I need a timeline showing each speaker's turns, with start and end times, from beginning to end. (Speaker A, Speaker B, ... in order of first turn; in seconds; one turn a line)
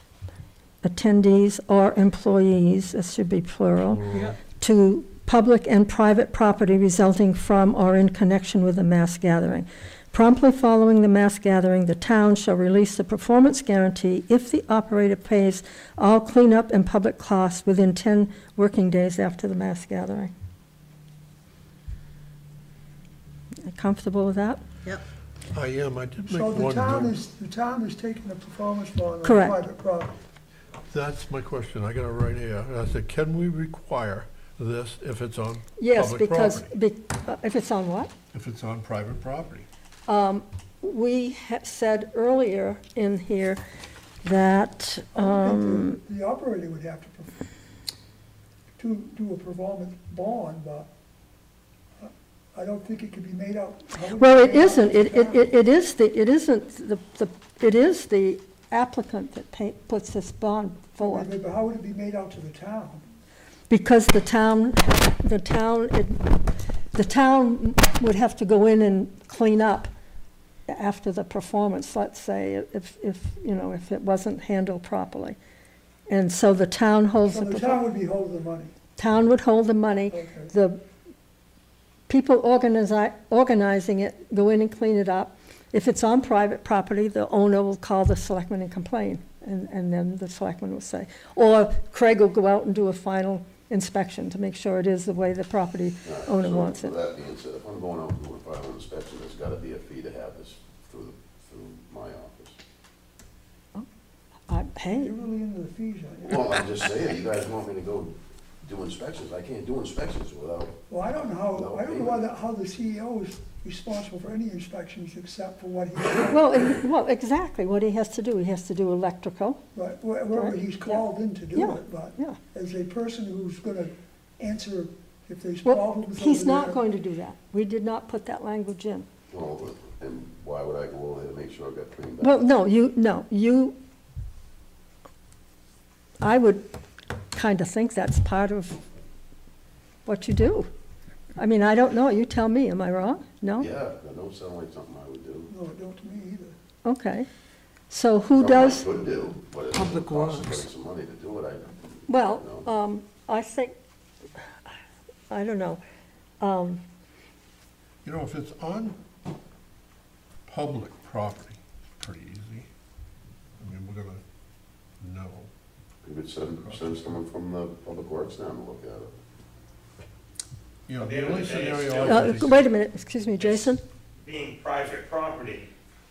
Speaker A: 0.8-20.3
Speaker B: 3.9-4.3
Speaker A: 23.6-24.6
Speaker B: 25.5-27.2
Speaker C: 26.2-30.2
Speaker A: 29.2-29.6
Speaker B: 30.9-36.7
Speaker A: 35.8-38.1
Speaker B: 38.3-39.7
Speaker A: 40.1-43.6
Speaker A: 44.2-46.0
Speaker C: 45.1-47.4
Speaker C: 48.8-50.9
Speaker C: 52.0-55.5
Speaker A: 54.2-61.3
Speaker C: 61.0-63.0
Speaker A: 63.7-66.2
Speaker A: 66.9-69.9
Speaker A: 70.7-75.4
Speaker A: 76.1-77.8
Speaker C: 77.3-78.7
Speaker A: 79.0-80.8
Speaker C: 80.1-80.5
Speaker A: 82.1-97.0
Speaker D: 96.0-102.6
Speaker A: 104.5-105.1
Speaker C: 104.9-106.4
Speaker D: 106.2-110.8
Speaker C: 110.9-116.7
Speaker D: 111.4-112.2
Speaker A: 116.3-119.6
Speaker C: 119.7-126.8
Speaker A: 120.3-122.4
Speaker A: 125.6-129.1
Speaker D: 129.3-132.5
Speaker A: 132.2-133.8
Speaker A: 136.2-136.6
Speaker A: 137.3-138.8
Speaker A: 140.1-140.7
Speaker A: 141.4-143.7
Speaker D: 143.6-145.5
Speaker C: 145.5-146.6
Speaker A: 146.8-147.3
Speaker A: 147.9-148.8
Speaker D: 148.3-152.7
Speaker B: 149.8-150.6
Speaker A: 152.1-153.8
Speaker A: 155.3-155.8
Speaker A: 156.4-156.8
Speaker B: 158.0-159.0
Speaker B: 160.4-162.7
Speaker B: 163.6-164.2
Speaker B: 165.0-165.5
Speaker D: 166.0-169.2
Speaker B: 166.4-167.2
Speaker B: 170.9-172.6
Speaker E: 171.0-172.4
Speaker A: 172.0-173.8
Speaker E: 173.4-175.7